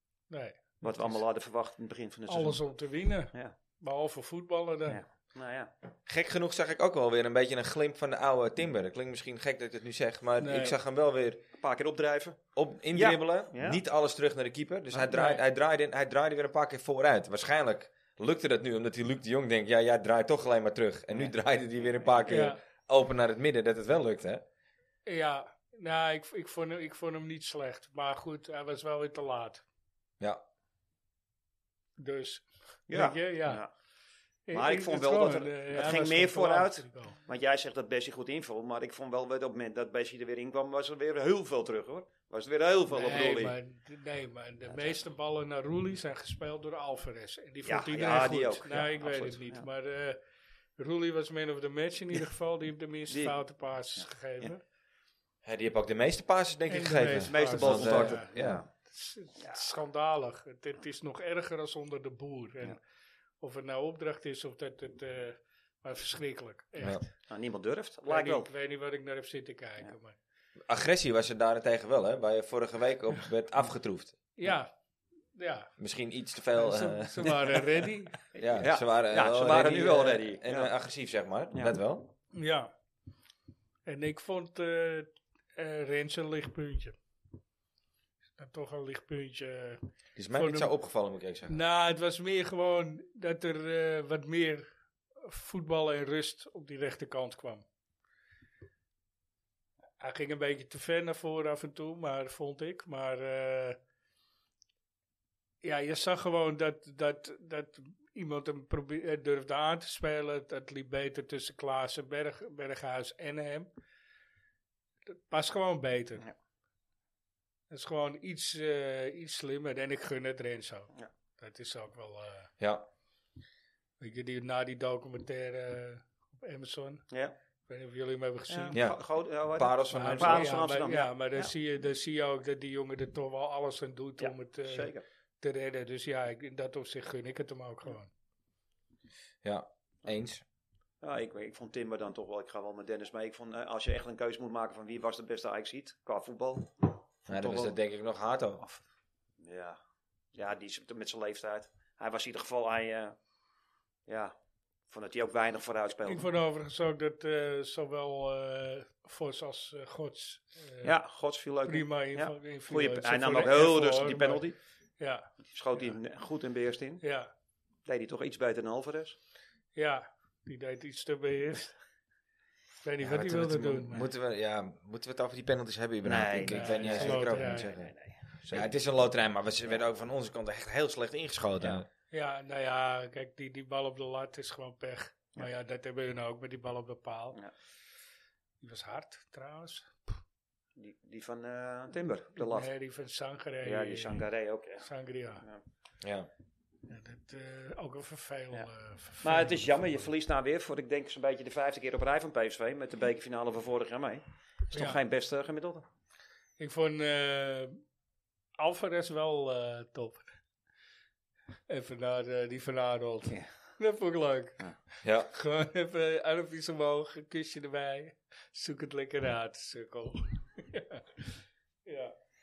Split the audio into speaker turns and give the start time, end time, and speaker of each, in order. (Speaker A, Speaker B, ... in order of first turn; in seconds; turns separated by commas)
Speaker A: 0.3-1.2, Speaker B: 0.8-2.6, Speaker A: 2.3-5.0, Speaker B: 4.9-5.7, Speaker C: 6.0-11.4, Speaker A: 10.4-10.8, Speaker B: 11.6-13.8, Speaker C: 12.6-24.4, Speaker A: 15.1-15.4, Speaker A: 22.3-22.6, Speaker A: 25.0-29.6, Speaker A: 32.0-33.6, Speaker B: 32.9-33.7, Speaker A: 34.5-37.2, Speaker B: 34.5-43.5, Speaker A: 42.9-50.2, Speaker B: 44.7-45.0, Speaker B: 47.6-49.6, Speaker A: 50.8-54.6, Speaker B: 53.1-53.4, Speaker B: 54.0-54.5, Speaker C: 55.4-58.6, Speaker A: 56.7-62.8, Speaker B: 57.2-58.7, Speaker B: 59.4-59.7, Speaker A: 63.4-67.1, Speaker B: 67.2-68.5, Speaker A: 68.0-70.2, Speaker C: 70.7-74.2, Speaker A: 74.4-74.7, Speaker A: 75.3-75.7, Speaker C: 75.8-77.3, Speaker A: 76.5-78.2, Speaker B: 78.3-80.7, Speaker C: 78.3-82.1, Speaker A: 82.3-82.7, Speaker A: 83.8-87.0, Speaker A: 88.4-90.7, Speaker C: 90.2-91.6, Speaker A: 91.5-94.7, Speaker A: 95.2-97.6, Speaker A: 100.0-103.8, Speaker A: 105.6-113.7, Speaker A: 115.1-116.2, Speaker A: 117.7-122.5, Speaker C: 122.6-122.8, Speaker A: 124.0-127.0, Speaker A: 127.7-128.8, Speaker B: 128.5-131.5, Speaker C: 128.7-129.0, Speaker C: 129.5-130.6, Speaker A: 129.9-138.1, Speaker B: 134.2-135.0, Speaker C: 139.4-140.4, Speaker B: 141.0-147.7, Speaker C: 147.3-148.6, Speaker B: 149.4-149.8, Speaker B: 150.3-153.2, Speaker B: 154.1-154.3, Speaker B: 154.9-156.3, Speaker A: 156.1-160.9, Speaker B: 160.8-164.6, Speaker A: 161.7-164.4, Speaker A: 165.0-165.3, Speaker B: 165.5-167.0, Speaker A: 167.0-167.3, Speaker B: 167.8-169.2, Speaker A: 169.7-171.8, Speaker A: 172.8-174.0, Speaker C: 173.0-177.9, Speaker B: 176.0-178.7, Speaker A: 176.4-177.7, Speaker C: 178.5-181.9, Speaker A: 182.1-187.4, Speaker A: 188.6-190.1, Speaker B: 190.8-192.7, Speaker A: 192.4-194.2, Speaker B: 193.6-194.8, Speaker A: 194.8-195.4, Speaker C: 196.0-196.3, Speaker A: 196.9-199.6, Speaker B: 199.2-205.8, Speaker A: 204.7-205.0, Speaker A: 206.6-207.8, Speaker A: 208.6-210.2, Speaker A: 211.7-214.7, Speaker C: 215.0-215.3, Speaker A: 215.2-222.1